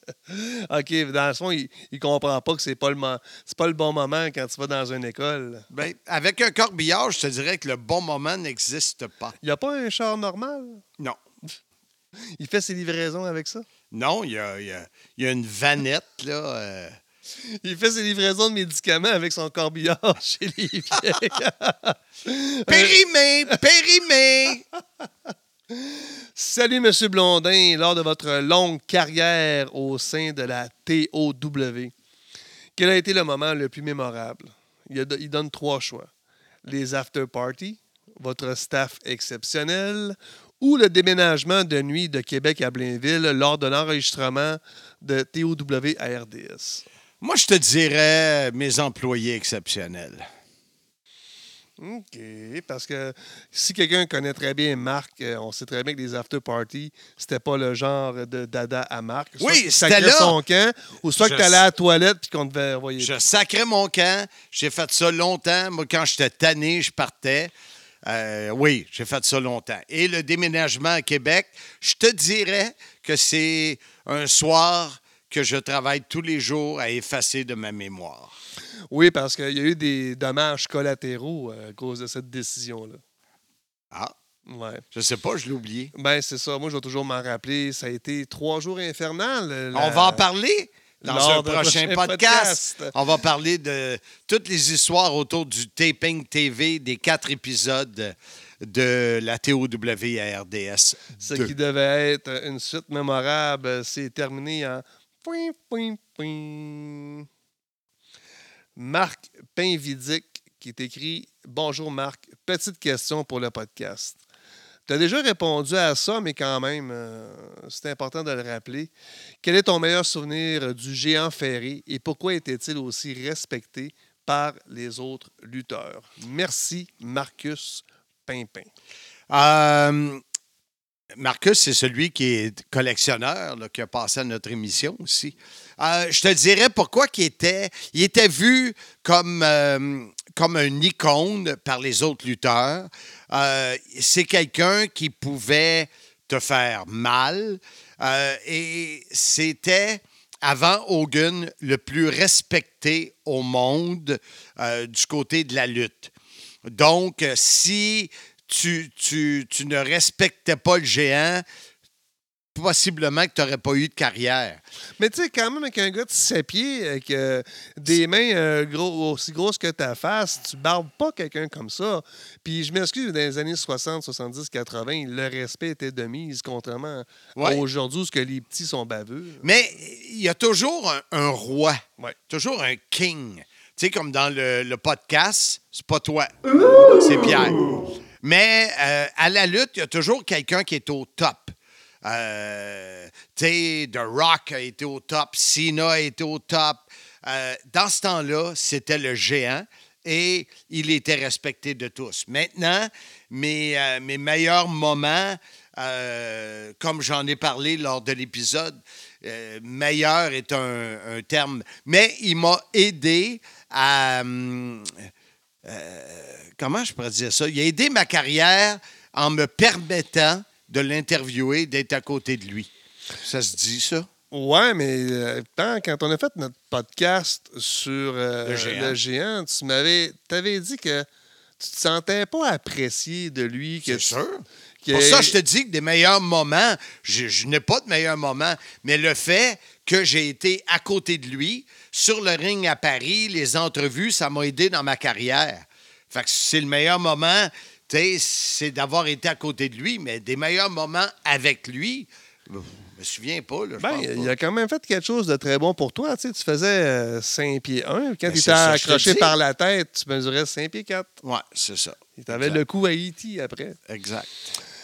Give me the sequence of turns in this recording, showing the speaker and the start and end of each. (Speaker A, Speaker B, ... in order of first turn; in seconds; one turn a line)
Speaker A: 0.3-5.7
Speaker B: 5.7-9.3
Speaker A: 9.4-10.8
Speaker A: 12.4-13.6
Speaker B: 13.9-17.0
Speaker A: 17.5-23.0
Speaker B: 22.7-24.6
Speaker A: 25.7-31.9
Speaker A: 32.8-36.1
Speaker A: 36.6-46.8
Speaker B: 47.2-50.3
Speaker A: 51.8-63.1
Speaker B: 59.4-60.4
Speaker B: 61.2-61.6
Speaker B: 63.0-67.5
Speaker B: 68.0-78.3
Speaker A: 78.9-83.0
Speaker A: 84.5-84.8
Speaker B: 84.9-85.9
Speaker A: 85.9-90.2
Speaker B: 89.7-101.5
Speaker A: 91.0-92.9
Speaker A: 101.2-107.3
Speaker A: 108.8-114.2
Speaker A: 114.9-118.9
Speaker A: 119.4-128.7
Speaker B: 129.3-130.2
Speaker B: 131.2-156.1
Speaker B: 156.6-161.4
Speaker B: 162.5-164.6
Speaker A: 165.0-179.5
Speaker B: 177.3-177.6
Speaker B: 179.4-186.3
Speaker B: 186.9-215.1
Speaker B: 215.6-222.7
Speaker B: 223.2-224.1
Speaker A: 224.3-231.1
Speaker B: 228.4-229.0
Speaker A: 231.6-234.2
Speaker B: 233.9-254.3
Speaker A: 234.8-235.4
Speaker A: 253.8-261.1
Speaker B: 258.2-259.3
Speaker B: 261.2-262.6
Speaker A: 262.2-263.8
Speaker B: 263.9-264.5